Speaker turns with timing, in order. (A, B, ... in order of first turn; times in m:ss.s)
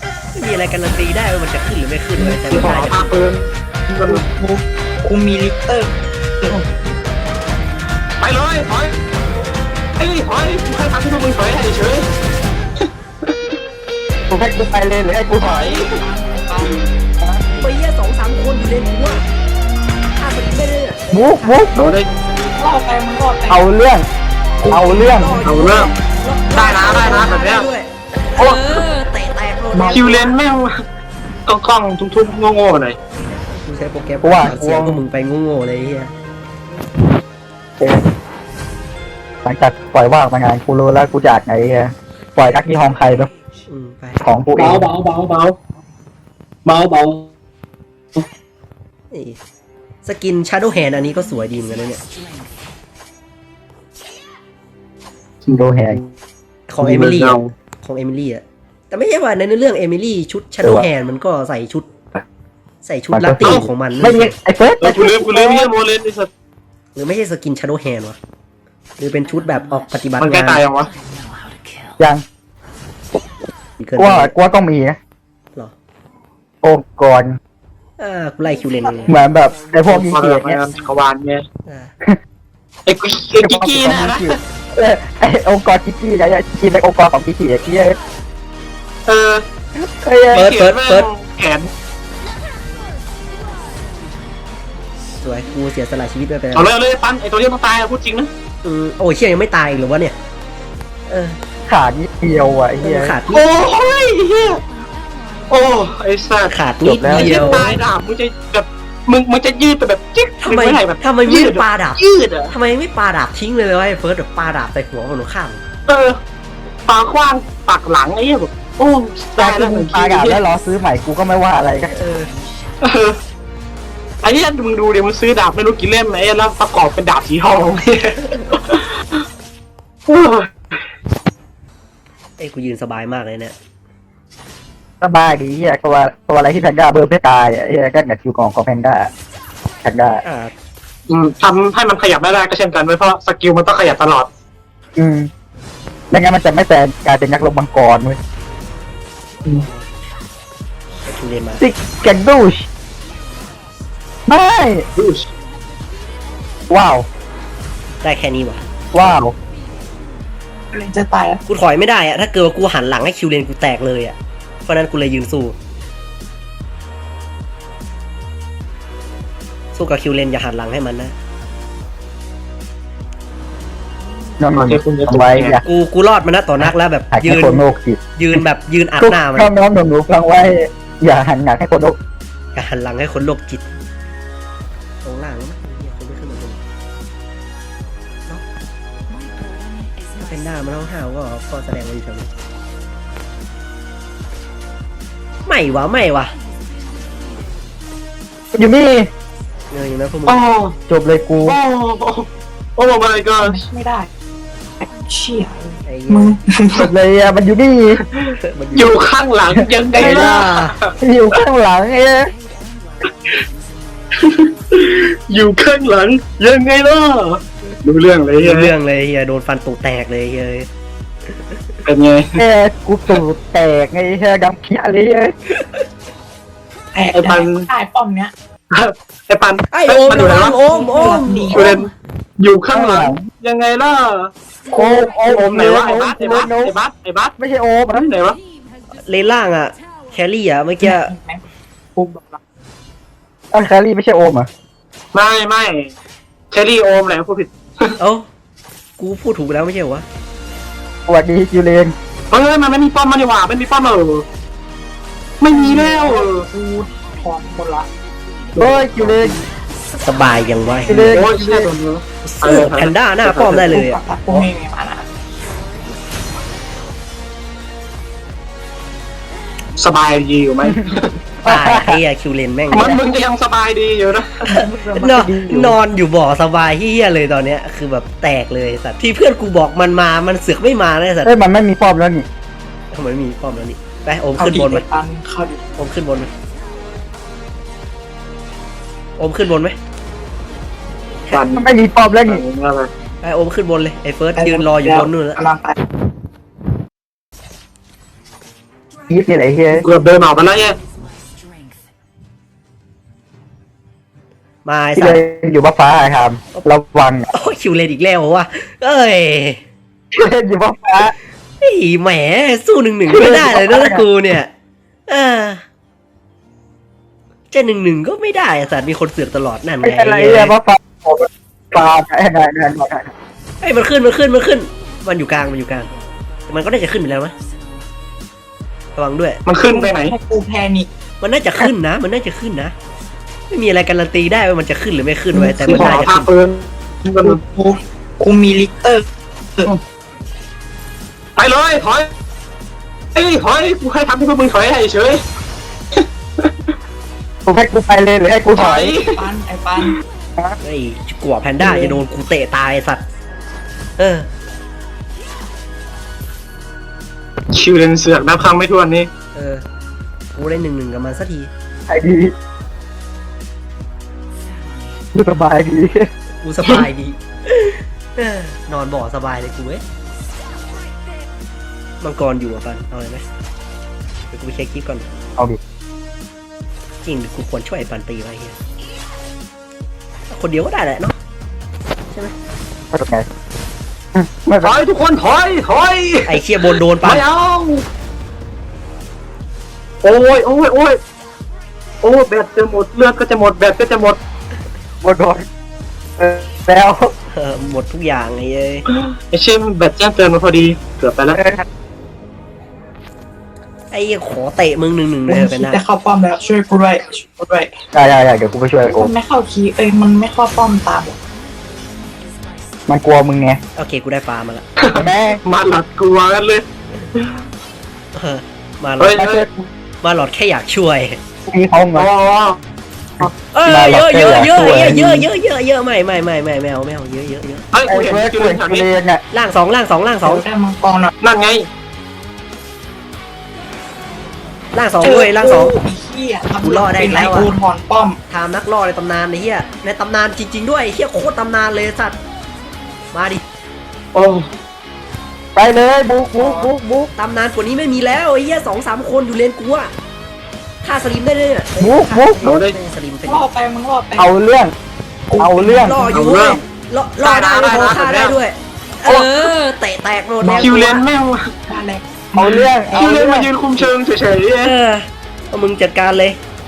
0:00.4-0:03.2 A
0:02.2-0:02.9 B
0:02.5-0:04.2 C
0:04.0-0:06.6 B
0:08.2-0:09.0 C
0:10.0-0:12.1 C
0:14.3-0:15.6 D
0:15.4-0:15.9 C
0:15.4-0:16.8 B
0:17.6-0:19.2 A
0:20.2-0:22.6 A
0:21.1-0:21.9 D
0:21.8-0:22.1 C
0:22.6-0:23.6 B
0:23.5-0:24.0 D
0:24.6-0:25.0 B
0:24.7-0:25.5 D
0:24.9-0:30.3 A
0:25.4-0:25.9 C
0:26.5-0:27.7 C
0:28.4-0:28.9 C
0:29.8-0:30.7 C
0:31.5-0:33.0 C
0:33.6-0:36.1 A
0:34.2-0:35.0 D
0:39.4-0:43.3 D
0:43.7-0:44.2 A
0:44.2-0:44.9 D
0:44.6-0:45.6 C
0:46.6-0:47.3 C
0:49.1-0:49.4 A
0:50.0-0:52.0 A
0:55.5-0:56.0 D
0:56.7-1:01.9 A
0:56.8-0:57.5 C
1:00.6-1:00.9 D
1:02.8-1:04.4 A
1:03.1-1:05.7 D
1:03.4-1:03.7 C
1:04.8-1:06.3 C
1:07.0-1:08.2 A
1:09.0-1:10.6 A
1:10.2-1:10.9 C
1:13.8-1:14.3 A
1:14.0-1:15.0 D
1:16.6-1:17.3 D
1:18.0-1:19.2 A
1:18.9-1:19.2 B
1:19.1-1:20.6 D
1:19.9-1:21.4 C
1:21.7-1:21.9 A
1:22.9-1:24.4 C
1:23.4-1:28.0 D
1:29.1-1:29.4 C
1:29.8-1:30.5 D
1:30.3-1:31.7 C
1:30.3-1:31.1 A
1:35.2-1:36.7 A
1:36.5-1:38.3 C
1:38.6-1:40.2 A
1:41.1-1:41.4 A
1:41.7-1:43.2 D
1:42.8-1:43.5 A
1:43.3-1:44.6 C
1:45.5-1:46.5 C
1:46.5-1:47.7 A
1:46.8-1:47.7 D
1:47.1-1:52.5 C
1:50.4-1:52.0 A
1:52.5-1:55.6 A
1:55.9-1:56.2 C
1:56.9-2:00.4 C
1:59.4-2:02.0 D
2:01.9-2:02.3 A
2:02.8-2:03.2 C
2:04.2-2:08.9 C
2:10.1-2:10.8 C
2:12.4-2:13.6 A
2:15.0-2:19.1 D
2:19.8-2:20.2 D
2:20.2-2:20.5 A
2:21.1-2:24.3 C
2:25.0-2:25.3 D
2:26.1-2:28.2 D
2:31.1-2:31.7 A
2:31.6-2:32.7 D
2:34.3-2:34.9 D
2:35.0-2:35.3 C
2:36.7-2:37.1 D
2:38.0-2:38.6 A
2:38.9-2:39.3 D
2:40.7-2:41.4 B
2:41.5-2:45.6 A
2:49.7-2:51.1 A
2:54.4-2:55.6 D
2:54.6-2:55.6 C
2:55.6-2:57.6 A
2:56.6-2:58.4 D
2:58.2-2:59.5 A
2:59.0-3:02.0 D
3:02.6-3:03.6 A
3:05.0-3:06.6 A
3:10.2-3:12.3 A
3:15.5-3:16.3 A
3:18.5-3:19.1 D
3:19.7-3:20.4 A
3:20.3-3:20.8 C
3:20.9-3:21.6 D
3:21.4-3:23.6 C
3:23.4-3:24.1 B
3:24.8-3:26.9 B
3:25.9-3:26.3 A
3:26.9-3:28.0 D
3:28.1-3:30.9 C
3:28.5-3:29.0 A
3:29.6-3:30.4 D
3:30.0-3:30.7 A
3:31.0-3:32.3 D
3:34.2-3:38.7 C
3:38.4-3:40.7 A
3:41.3-3:41.6 A
3:41.8-3:42.4 C
3:42.4-3:45.3 D
3:46.9-3:48.3 B
3:47.1-3:47.7 C
3:48.7-3:50.6 C
3:49.7-3:51.6 A
3:50.5-3:51.9 B
3:51.5-3:57.4 C
3:52.7-3:53.2 D
3:54.7-3:56.7 D
3:57.4-3:58.0 D
3:57.9-3:58.4 C
3:59.0-4:01.1 A
4:00.8-4:01.4 B
4:02.0-4:02.4 B
4:03.5-4:04.5 D
4:05.1-4:05.9 C
4:06.5-4:08.0 C
4:08.0-4:08.3 A
4:09.0-4:10.0 A
4:11.1-4:11.9 D
4:12.3-4:14.3 C
4:15.4-4:16.5 C
4:15.5-4:17.9 B
4:18.6-4:19.3 C
4:18.6-4:19.4 D
4:20.0-4:21.1 A
4:20.9-4:21.7 D
4:20.9-4:23.8 C
4:22.2-4:24.5 A
4:23.6-4:25.1 B
4:29.8-4:31.2 C
4:31.4-4:32.0 D
4:31.4-4:33.0 A
4:32.7-4:34.5 C
4:34.5-4:35.2 B
4:35.0-4:35.8 D
4:35.0-4:41.3 A
4:41.2-4:42.3 D
4:42.9-4:44.8 A
4:44.4-4:45.6 B
4:45.8-4:46.3 A
4:49.2-4:49.8 A
4:51.3-4:51.6 C
4:51.5-4:52.4 D
4:52.2-4:52.9 C
4:53.2-4:55.4 A
4:54.4-4:55.8 B
4:59.1-4:59.8 D
4:59.7-5:00.8 C
5:04.6-5:05.2 A
5:05.0-5:07.3 D
5:07.3-5:09.6 A
5:10.1-5:11.1 D
5:11.6-5:14.5 A
5:13.1-5:14.0 D
5:15.1-5:15.6 A
5:17.5-5:20.5 A
5:19.8-5:23.1 D
5:23.6-5:25.9 A
5:26.5-5:27.3 A
5:29.0-5:29.4 A
5:29.5-5:30.1 C
5:29.6-5:30.9 B
5:31.2-5:32.7 A
5:33.5-5:36.3 A
5:35.3-5:36.0 B
5:35.7-5:37.4 C
5:37.2-5:39.1 B
5:41.4-5:42.1 C
5:43.2-5:45.2 C
5:47.5-5:48.9 D
5:48.6-5:49.2 C
5:48.9-5:50.0 B
5:50.6-5:53.0 A
5:54.0-5:54.3 A
5:57.5-5:59.1 C
5:59.3-5:59.6 A
6:00.3-6:01.5 A
6:01.9-6:02.3 D
6:05.1-6:06.1 D
6:06.4-6:09.8 A
6:12.0-6:13.2 A
6:14.3-6:15.1 A
6:17.0-6:18.6 A
6:20.3-6:21.2 A
6:22.9-6:23.3 D
6:24.2-6:24.8 D
6:24.6-6:27.8 C
6:26.3-6:27.2 A
6:30.0-6:31.0 C
6:32.0-6:34.2 C
6:35.0-6:35.5 D
6:36.2-6:37.1 D
6:37.3-6:38.8 A
6:38.9-6:41.4 C
6:41.3-6:41.6 D
6:43.9-6:45.8 A
6:45.3-6:47.8 B
6:47.9-6:49.1 D
6:48.8-6:51.2 B
6:52.9-6:53.6 D
6:53.8-6:54.6 A
6:54.8-6:57.3 C
6:55.0-6:55.4 D
6:58.1-6:59.2 A
6:59.0-6:59.5 C
6:59.2-6:59.7 D
7:00.0-7:01.2 A
7:01.5-7:02.1 D
7:02.0-7:02.6 C
7:03.2-7:05.3 D
7:03.5-7:07.6 A
7:07.7-7:08.9 C
7:07.9-7:09.2 D
7:09.3-7:10.4 A
7:10.2-7:11.1 B
7:11.2-7:11.7 C
7:14.7-7:15.8 A
7:15.0-7:18.2 B
7:16.6-7:17.5 A
7:18.3-7:22.2 A
7:23.1-7:23.4 A
7:24.1-7:24.5 C
7:25.6-7:27.1 D
7:26.4-7:26.7 B
7:27.2-7:29.9 A
7:30.8-7:33.5 A
7:31.8-7:32.5 D
7:32.4-7:32.8 C
7:33.2-7:34.3 B
7:34.2-7:34.7 D
7:35.3-7:36.5 B
7:35.4-7:36.0 D
7:35.8-7:41.0 A
7:36.1-7:36.6 C
7:37.2-7:38.4 C
7:37.7-7:38.0 B
7:39.1-7:39.5 D
7:40.5-7:41.6 C
7:41.7-7:42.7 B
7:42.4-7:43.5 D
7:42.9-7:44.7 C
7:44.6-7:46.4 A